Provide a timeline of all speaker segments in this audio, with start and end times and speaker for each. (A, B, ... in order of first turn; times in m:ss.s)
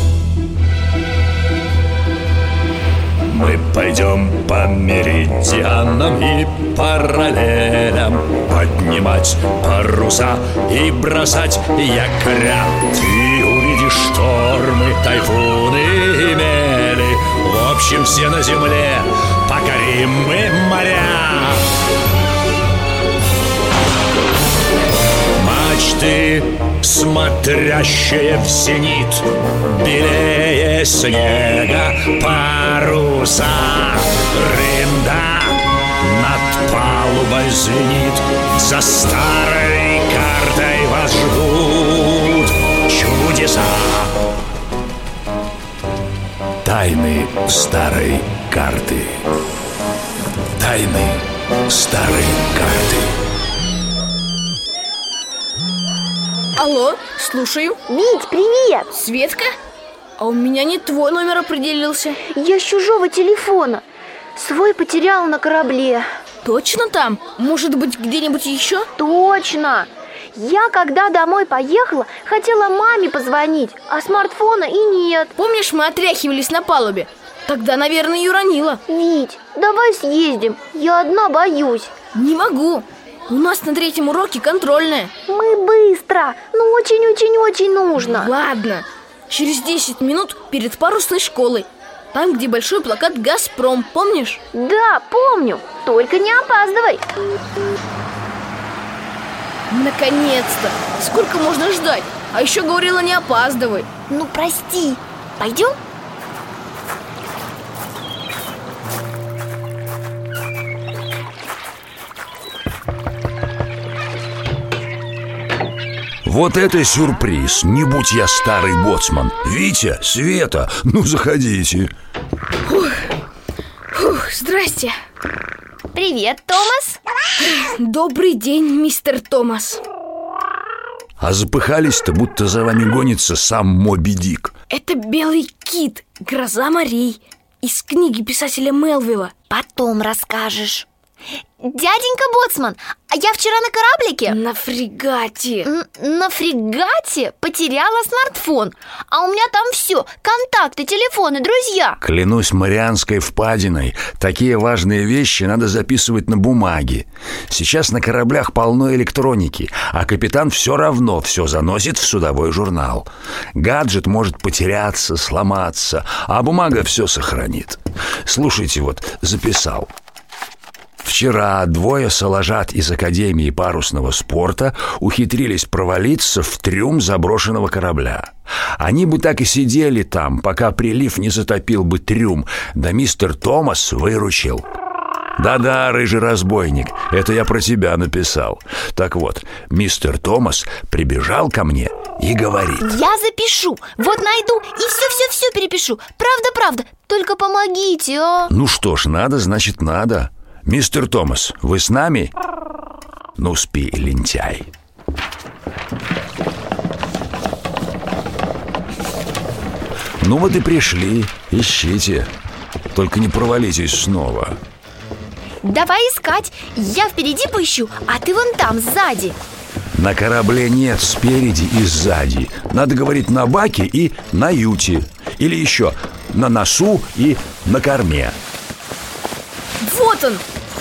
0:03.3-0:21.7 A
0:25.4-0:44.2 A
0:46.6-0:49.2 A
0:50.6-0:53.1 A
0:56.6-0:57.8 B
0:57.9-0:58.9 C
0:58.9-0:59.5 B
1:00.2-1:02.2 B
1:02.3-1:03.8 C
1:04.4-1:06.1 C
1:06.4-1:08.9 B
1:09.0-1:15.3 C
1:15.4-1:18.8 B
1:18.9-1:21.9 C
1:22.1-1:25.1 B
1:25.3-1:28.3 C
1:28.0-1:34.4 B
1:34.5-1:37.0 C
1:39.7-1:43.9 B
1:44.1-1:45.8 C
1:56.2-2:01.9 A
2:02.7-2:03.0 B
2:03.9-2:04.9 B
2:05.9-2:07.0 C
2:07.4-2:09.8 B
2:11.2-2:14.5 A
2:14.7-2:19.3 B
2:19.5-2:20.9 C
2:21.6-2:24.4 C
2:24.3-2:25.7 B
2:25.6-2:32.0 C
2:32.0-2:49.9 A
2:51.0-3:04.7 A
3:05.4-3:13.0 A
3:12.8-3:18.5 C
3:18.5-3:22.3 A
3:23.4-3:24.7 A
3:30.2-3:32.3 A
3:32.9-3:34.6 A
3:35.6-3:39.4 C
3:39.9-3:48.4 A
3:49.8-3:50.4 B